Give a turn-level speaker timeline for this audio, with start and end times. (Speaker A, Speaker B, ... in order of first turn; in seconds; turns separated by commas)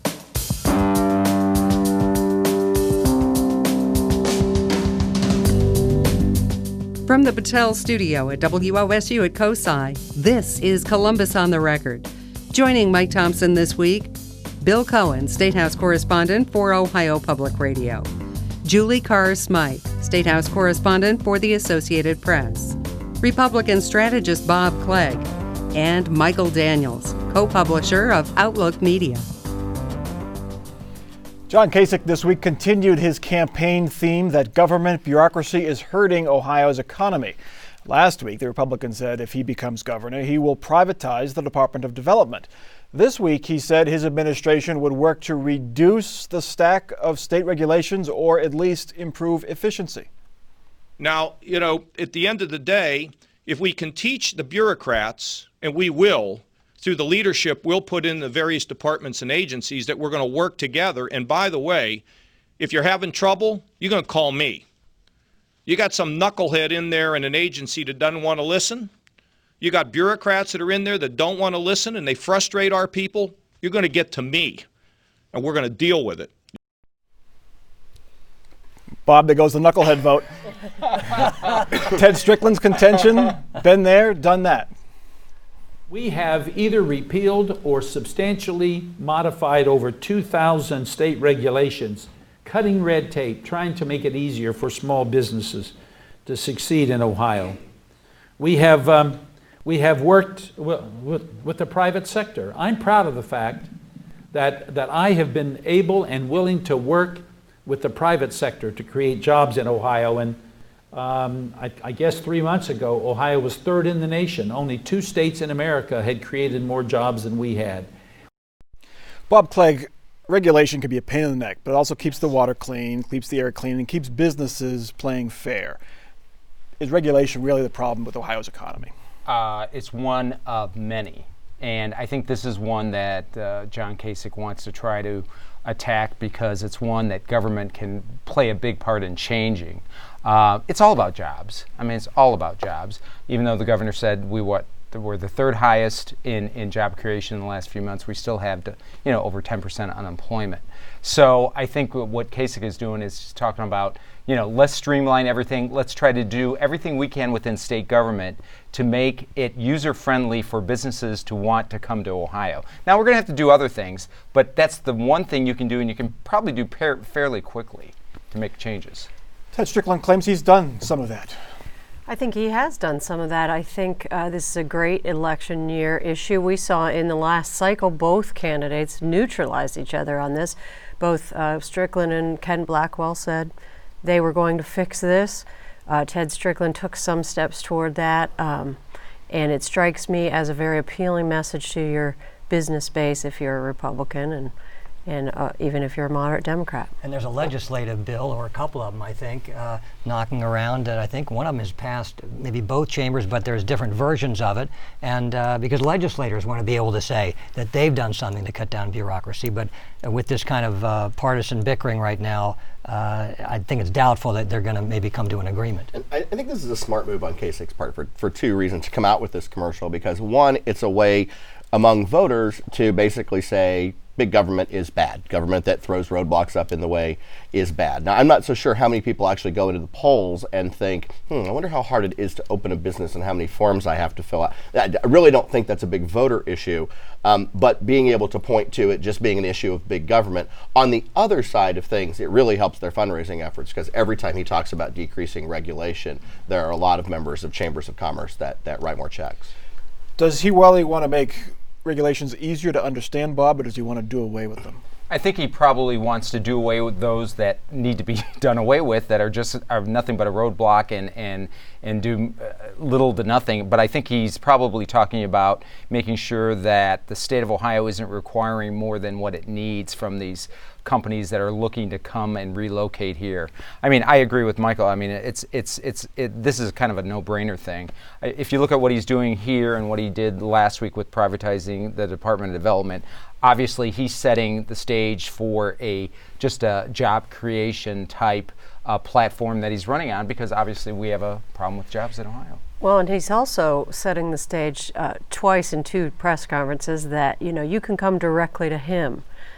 Speaker A: 7.0-18.1, Speaker A: 18.6-29.2, Speaker B: 31.5-50.1, Speaker C: 51.0-62.0, Speaker C: 62.6-64.7, Speaker C: 65.7-68.9, Speaker C: 69.6-74.7, Speaker C: 75.3-76.3, Speaker B: 79.1-80.3, Speaker B: 81.2-84.7, Speaker D: 85.9-95.7, Speaker D: 96.3-97.6, Speaker D: 98.4-103.7, Speaker D: 104.3-110.4, Speaker D: 110.9-117.9, Speaker B: 119.3-125.8, Speaker B: 126.8-128.9, Speaker E: 129.2-169.1, Speaker B: 169.5-171.4, Speaker F: 172.1-183.5, Speaker F: 184.0-188.8, Speaker F: 189.3-194.5, Speaker F: 195.1-196.9, Speaker G: 197.0-215.9, Speaker H: 215.9-249.5, Speaker B: 250.2-254.8, Speaker E: 255.1-292.6, Speaker F: 292.8-299.2